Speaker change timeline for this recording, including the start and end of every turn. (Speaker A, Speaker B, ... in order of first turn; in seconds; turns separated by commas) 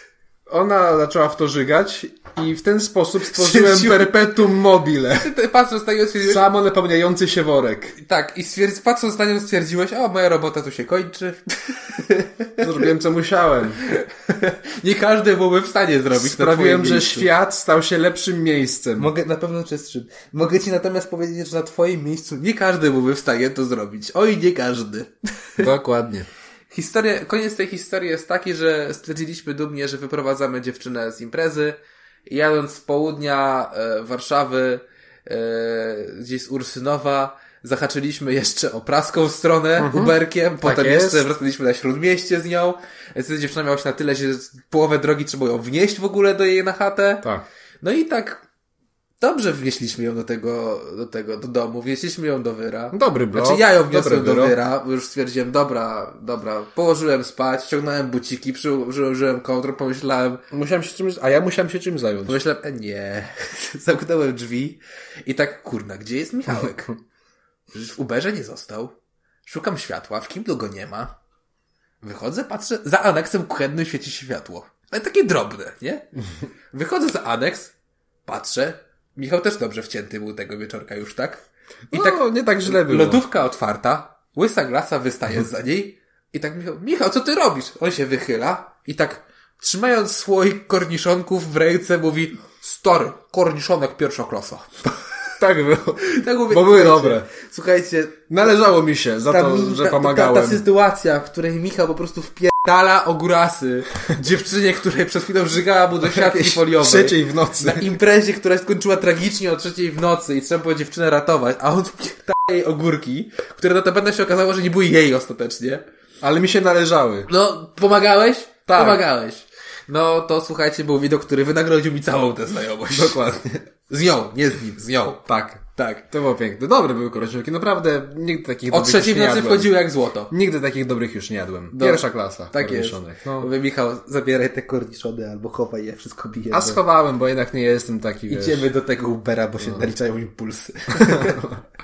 Speaker A: 0.5-5.3, Speaker B: 3.2-4.2, Speaker B: 5.2-6.5, Speaker A: 6.2-8.0, Speaker B: 8.0-12.8, Speaker A: 12.6-13.8, Speaker B: 13.8-17.3, Speaker A: 16.1-19.1, Speaker B: 19.0-25.7, Speaker A: 25.6-26.3, Speaker B: 26.7-47.2, Speaker A: 39.8-41.3, Speaker B: 47.8-48.4, Speaker B: 49.2-60.4, Speaker A: 52.9-54.6, Speaker A: 60.5-62.4, Speaker B: 62.3-67.0, Speaker B: 67.7-68.9, Speaker B: 69.5-71.2, Speaker B: 72.0-76.1, Speaker B: 76.7-77.7, Speaker B: 78.3-95.0, Speaker A: 81.9-83.2, Speaker A: 95.4-97.3, Speaker B: 96.0-98.5, Speaker A: 98.3-100.6, Speaker B: 99.3-115.8, Speaker A: 106.0-107.9, Speaker A: 116.2-117.3, Speaker B: 117.3-123.3, Speaker A: 118.7-119.0, Speaker A: 122.9-123.6, Speaker B: 123.9-126.0, Speaker A: 125.3-129.8, Speaker B: 128.7-130.3, Speaker A: 130.3-133.5, Speaker B: 131.7-136.8, Speaker A: 136.5-138.7, Speaker B: 138.3-141.5, Speaker A: 139.6-139.9, Speaker A: 141.0-141.6